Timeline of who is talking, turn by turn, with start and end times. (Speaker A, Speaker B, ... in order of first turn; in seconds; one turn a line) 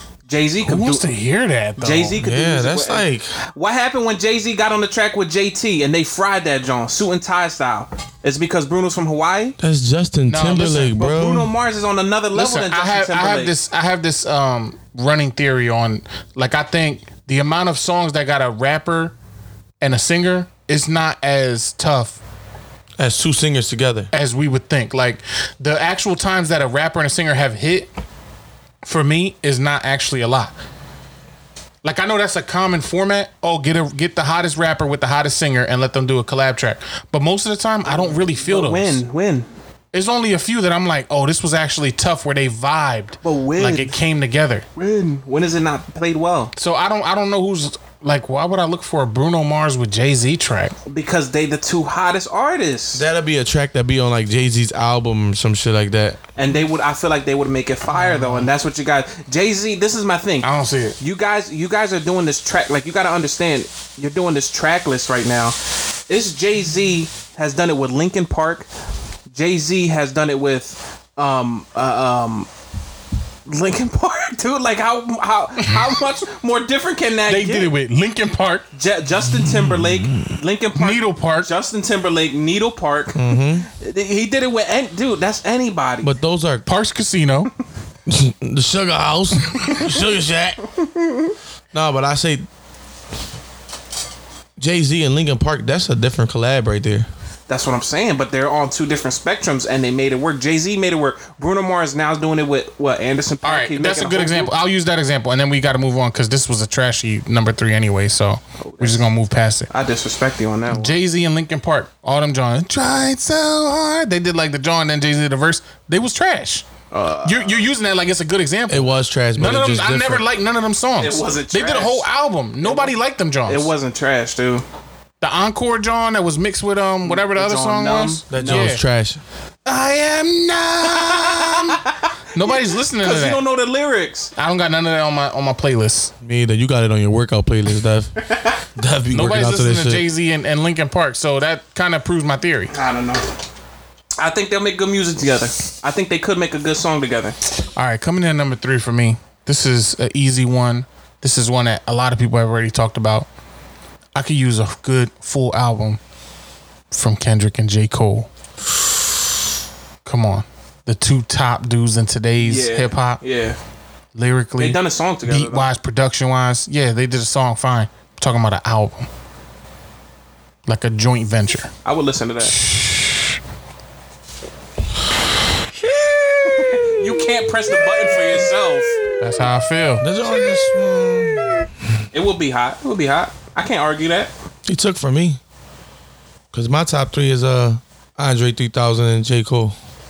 Speaker A: 0.3-1.0
Speaker B: 0.6-2.2
Speaker A: 1.8-9.6
Speaker C: 2.2-3.3
Speaker C: 9.6-11.5
Speaker B: 10.3-10.9
Speaker A: 10.9-13.5
Speaker B: 12.3-19.1
Speaker B: 19.8-22.2
Speaker C: 23.0-24.1
Speaker B: 24.1-27.9
Speaker B: 28.8-30.5
Speaker B: 31.8-39.0
Speaker A: 37.9-39.5
Speaker B: 39.9-44.6
Speaker A: 43.2-44.0
Speaker A: 44.8-46.5
Speaker B: 46.5-50.7
Speaker A: 50.9-53.1
Speaker C: 52.9-56.2
Speaker A: 56.4-60.5
Speaker B: 57.9-58.5
Speaker B: 60.4-61.0
Speaker A: 61.0-65.5
Speaker A: 66.1-68.7
Speaker A: 69.3-72.5
Speaker A: 73.5-77.7
Speaker B: 77.3-78.7
Speaker A: 78.7-83.2
Speaker B: 80.8-81.5
Speaker C: 83.1-83.7
Speaker A: 83.7-86.1
Speaker C: 86.0-86.6
Speaker B: 86.6-87.5
Speaker C: 88.1-90.6
Speaker C: 91.7-92.4
Speaker C: 94.6-97.1
Speaker A: 97.5-104.5
Speaker B: 103.4-109.7
Speaker A: 108.6-109.0
Speaker A: 109.7-111.0
Speaker B: 110.7-116.6
Speaker A: 116.9-117.6
Speaker B: 117.2-123.7
Speaker C: 118.7-120.2
Speaker A: 121.0-122.1
Speaker A: 122.6-122.9
Speaker A: 123.5-124.6
Speaker B: 125.2-128.8
Speaker A: 127.0-128.8
Speaker C: 128.3-129.2
Speaker B: 129.7-131.8
Speaker A: 131.1-131.4
Speaker B: 132.3-133.4
Speaker A: 132.4-134.3
Speaker B: 134.3-136.1
Speaker C: 136.2-138.1
Speaker C: 138.8-140.1
Speaker B: 139.1-142.7
Speaker A: 142.7-143.2
Speaker A: 144.2-147.3
Speaker B: 147.8-153.3
Speaker B: 154.1-156.0
Speaker B: 156.9-158.3
Speaker B: 160.0-163.2
Speaker A: 162.4-163.6
Speaker B: 164.2-169.1
Speaker A: 164.6-165.7
Speaker B: 170.7-171.7
Speaker A: 171.8-172.6
Speaker B: 172.6-173.2
Speaker A: 176.6-179.0
Speaker B: 179.2-180.0
Speaker C: 180.0-181.5
Speaker A: 182.1-184.3
Speaker C: 184.7-185.4
Speaker C: 186.5-189.8